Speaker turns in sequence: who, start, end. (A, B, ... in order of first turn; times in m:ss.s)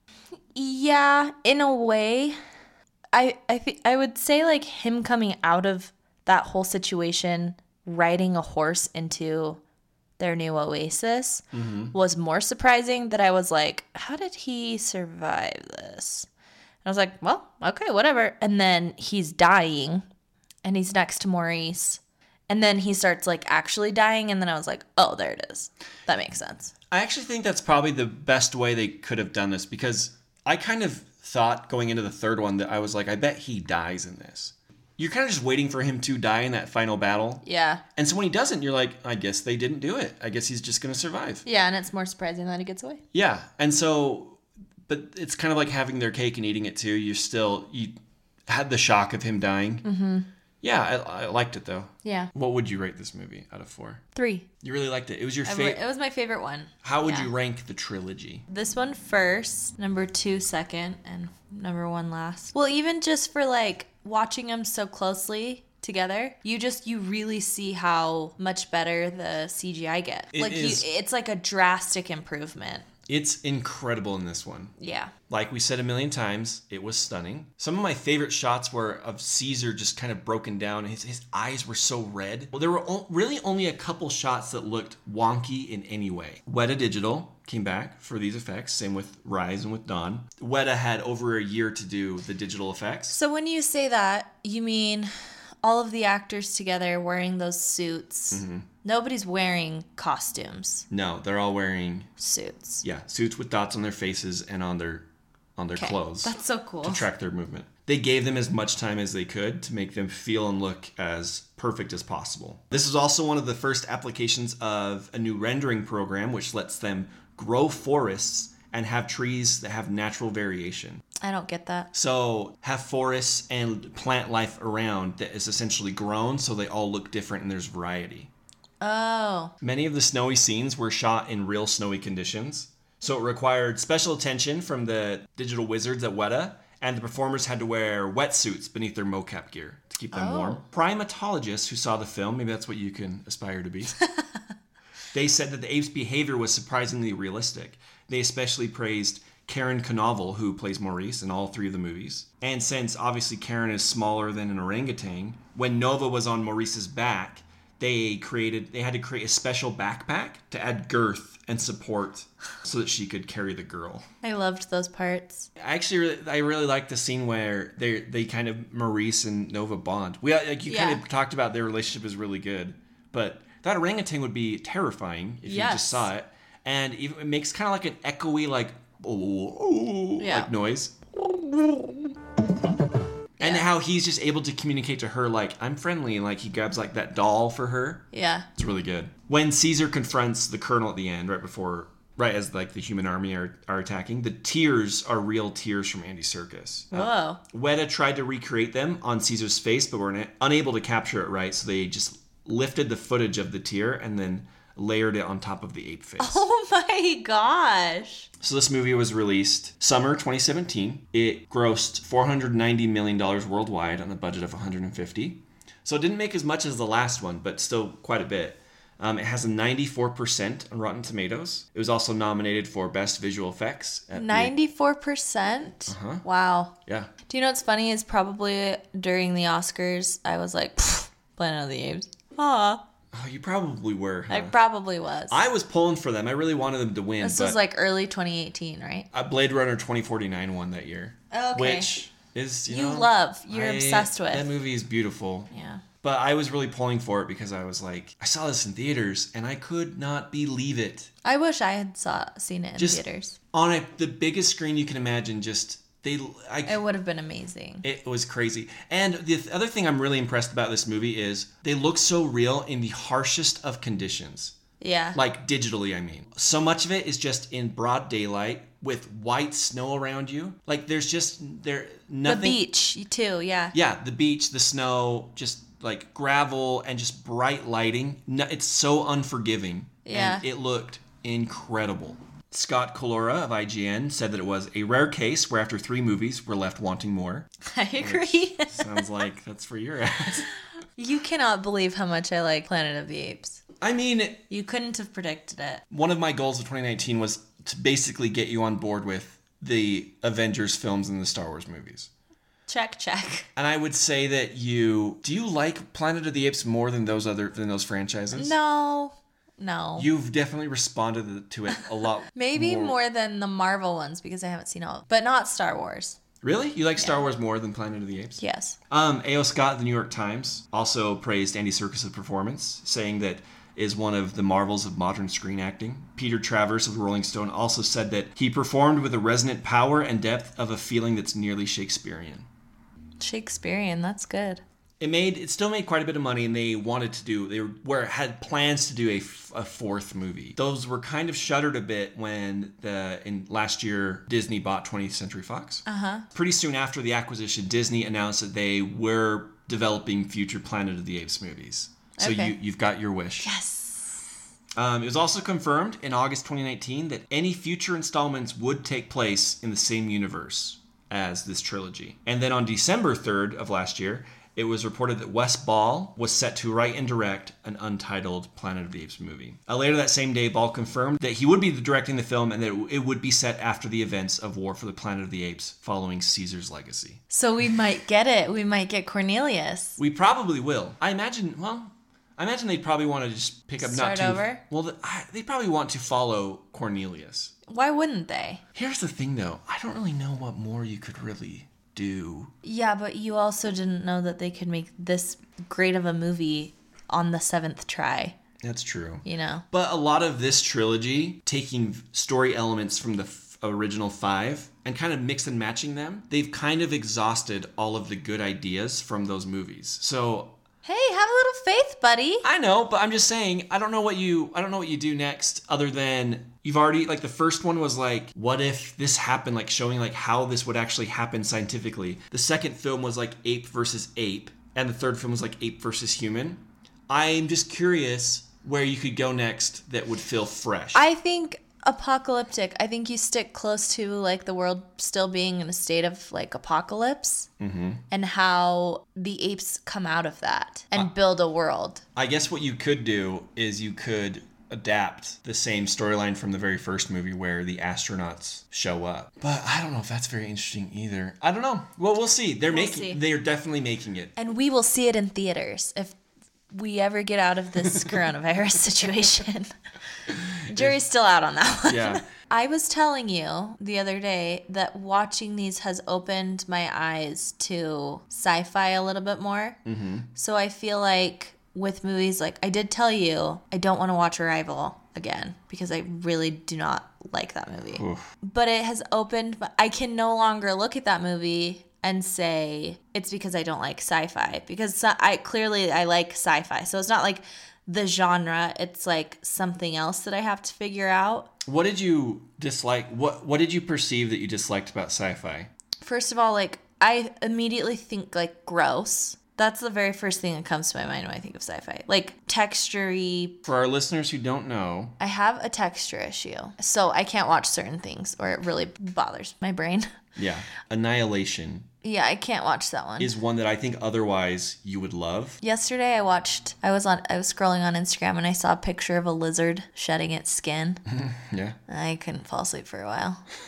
0:00.5-0:02.4 A
0:03.1-0:09.6 A
0:10.2-0:16.3 A
0:11.5-0:11.9 B
0:16.8-0:20.0 A
0:20.6-0:26.7 A
0:26.9-0:37.4 B
0:37.4-0:37.8 A
0:38.0-0:41.4 B
0:41.4-0:43.0 A
0:43.1-0:48.0 B
0:48.5-0:49.8 B
0:49.8-0:50.3 A
0:50.6-0:54.0 B
0:54.1-0:54.5 A
0:54.6-0:55.8 B
0:55.4-0:57.3 A
0:56.8-0:58.4 B
0:58.5-1:12.8 A
1:10.3-1:10.8 B
1:13.1-1:14.8 B
1:14.8-1:15.1 A
1:15.3-1:33.2 B
1:33.1-1:35.1 A
1:35.6-1:40.8 A
1:38.3-1:38.7 B
1:40.9-1:42.1 B
1:42.2-1:42.8 A
1:42.8-2:01.0 B
1:45.8-1:47.0 A
2:01.2-2:01.9 A
2:01.9-2:08.3 B
2:08.8-2:09.5 A
2:09.6-2:24.0 B
2:20.1-2:20.6 A
2:25.1-2:44.1 B
2:44.2-2:45.5 A
2:45.6-3:01.0 B
2:50.7-2:51.0 A
2:55.4-2:56.1 A
3:00.2-3:00.5 A
3:03.4-3:26.4 B
3:03.4-3:03.6 A
3:08.1-3:08.5 A
3:16.9-3:17.4 A
3:26.2-3:28.3 A
3:28.4-3:44.5 B
3:44.1-3:46.7 A
3:45.9-3:46.2 B
3:46.8-3:47.1 B
3:47.3-3:52.8 A
3:53.1-3:54.5 B
3:54.3-3:55.4 A
3:55.3-3:57.6 B
3:57.2-3:59.1 A
3:59.1-4:05.5 B
4:01.3-4:01.9 A
4:02.7-4:04.5 A
4:05.5-4:05.8 A
4:06.0-4:11.1 B
4:11.2-4:13.4 A
4:12.8-4:16.8 B
4:16.6-4:17.8 A
4:17.8-4:24.5 B
4:24.8-4:25.2 A
4:25.1-4:32.6 B
4:32.2-4:33.7 A
4:33.7-4:50.5 B
4:40.0-4:40.4 A
4:47.6-4:49.0 A
4:51.0-4:53.6 A
4:53.8-4:54.4 B
4:54.5-4:55.8 A
4:55.9-5:02.1 B
5:02.7-5:03.5 A
5:03.6-5:08.6 B
5:08.3-5:10.1 A
5:10.0-5:13.0 B
5:12.3-5:16.2 A
5:16.4-5:32.5 B
5:18.4-5:18.8 A
5:33.2-5:34.6 A
5:35.0-5:53.5 B
5:45.8-5:46.2 A
5:52.2-5:52.5 A
5:53.4-5:54.2 A
5:54.8-6:17.2 B
6:17.3-6:20.0 A
6:20.0-6:27.5 B
6:23.8-6:24.6 A
6:27.7-6:28.6 A
6:28.7-6:32.5 B
6:32.6-6:38.4 A
6:38.6-6:50.6 B
6:39.2-6:39.6 A
6:50.8-6:52.4 A
6:52.4-7:11.0 B
7:10.9-7:17.5 A
7:17.6-7:18.0 B
7:18.1-7:22.0 A
7:22.2-7:34.3 B
7:32.7-7:33.2 A
7:34.4-7:36.2 A
7:36.7-7:39.7 A
7:40.3-7:40.9 B
7:40.7-7:49.8 A
7:41.8-7:42.2 B
7:49.8-7:50.3 B
7:50.3-8:11.5 A
7:57.9-7:58.2 B
8:11.6-8:15.7 B
8:16.0-8:23.6 A
8:23.6-8:25.2 B
8:25.2-8:30.1 A
8:30.4-8:31.9 B
8:32.0-8:33.3 A
8:33.2-8:35.6 B
8:35.6-8:41.0 A
8:41.1-8:41.8 B
8:41.9-8:43.4 A